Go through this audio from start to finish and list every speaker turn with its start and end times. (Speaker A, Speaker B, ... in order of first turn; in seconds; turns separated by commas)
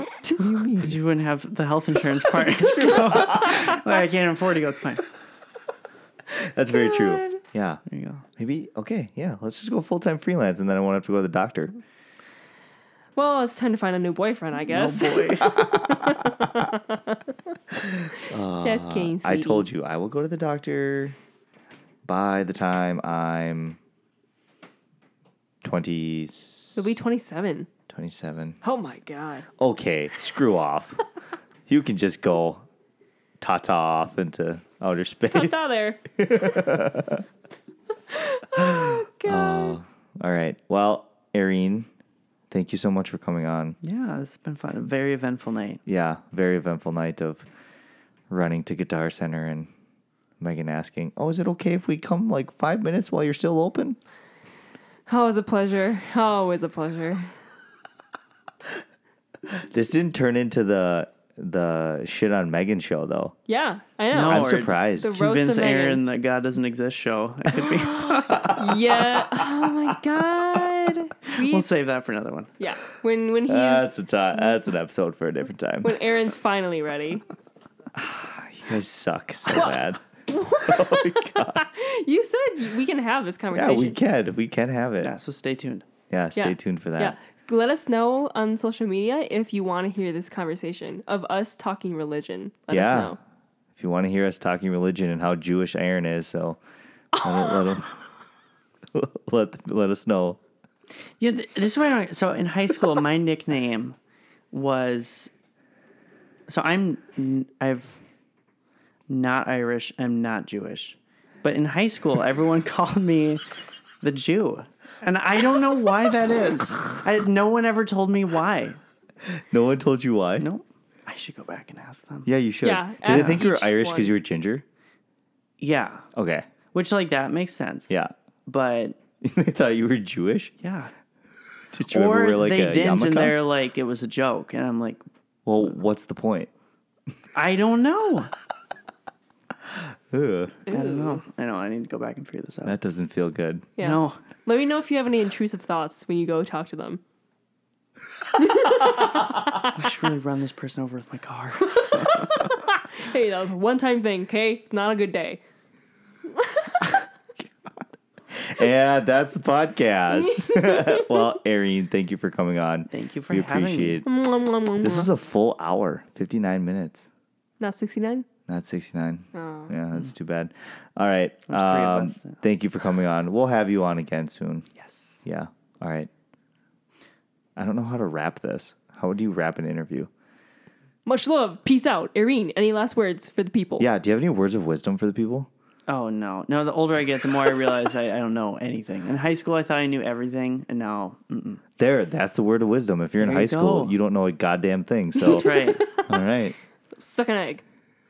Speaker A: 0.4-1.0, Speaker B: 0.7-5.1, Speaker A: 2.9-3.8, Speaker A: 6.3-7.8, Speaker C: 6.7-7.4, Speaker B: 7.9-8.2, Speaker A: 8.4-11.7, Speaker C: 13.2-17.3, Speaker B: 14.7-15.6, Speaker A: 15.4-16.7, Speaker A: 17.8-21.2, Speaker C: 18.1-19.7, Speaker A: 22.1-23.8, Speaker A: 25.6-26.9, Speaker C: 26.8-27.7, Speaker A: 27.9-28.6, Speaker C: 28.6-29.5, Speaker A: 29.6-31.0, Speaker A: 31.7-32.6, Speaker A: 33.4-37.2, Speaker C: 35.3-36.0, Speaker C: 38.1-39.8, Speaker A: 38.5-41.9, Speaker A: 42.5-43.8, Speaker B: 43.8-45.8, Speaker A: 45.9-47.5, Speaker A: 48.3-49.7, Speaker A: 50.4-54.0, Speaker C: 55.1-57.3, Speaker A: 59.5-63.4, Speaker C: 63.5-66.0, Speaker B: 64.1-68.5, Speaker A: 64.3-65.2, Speaker A: 68.2-70.6, Speaker C: 68.4-71.8, Speaker B: 71.4-72.5, Speaker C: 72.6-74.0, Speaker A: 73.5-76.0, Speaker C: 75.8-77.2, Speaker A: 78.0-80.0, Speaker C: 80.3-84.0, Speaker A: 80.6-81.6, Speaker A: 83.5-85.1, Speaker B: 85.0-85.8, Speaker A: 86.1-87.2, Speaker C: 86.3-93.2, Speaker A: 92.7-93.2, Speaker A: 93.8-96.6, Speaker C: 97.2-97.6, Speaker A: 97.2-97.9, Speaker A: 98.9-100.4, Speaker B: 101.2-104.0, Speaker B: 104.5-105.3, Speaker B: 106.5-108.0, Speaker B: 109.1-113.4, Speaker B: 114.0-118.8, Speaker A: 119.3-120.5, Speaker B: 120.4-122.3, Speaker A: 122.3-124.7, Speaker C: 122.6-124.1, Speaker B: 123.1-123.4, Speaker B: 125.6-126.1, Speaker A: 126.2-126.5, Speaker B: 126.7-129.0, Speaker A: 129.2-130.6, Speaker B: 130.6-130.9, Speaker A: 131.7-133.4, Speaker B: 131.8-135.0, Speaker A: 135.5-136.5, Speaker B: 137.3-138.3, Speaker A: 139.7-140.6, Speaker C: 140.7-141.2, Speaker B: 140.7-142.8, Speaker A: 142.7-143.7, Speaker C: 143.8-147.0, Speaker B: 143.8-144.2, Speaker C: 148.4-149.7, Speaker B: 149.7-152.6, Speaker C: 151.7-155.4, Speaker C: 156.3-157.1, Speaker A: 158.3-164.1, Speaker C: 160.1-161.3, Speaker B: 162.9-164.0, Speaker C: 164.0-165.1, Speaker A: 164.8-167.1, Speaker C: 167.6-168.3, Speaker A: 168.5-174.7, Speaker C: 169.3-169.7, Speaker B: 171.5-172.4, Speaker B: 174.8-175.2, Speaker A: 175.2-176.1, Speaker A: 177.6-180.1, Speaker C: 181.1-183.9, Speaker A: 183.8-185.5, Speaker B: 185.9-191.6, Speaker A: 191.8-195.5, Speaker B: 193.2-193.9, Speaker B: 195.2-195.8, Speaker C: 195.3-196.2, Speaker A: 196.1-196.6, Speaker C: 196.9-197.6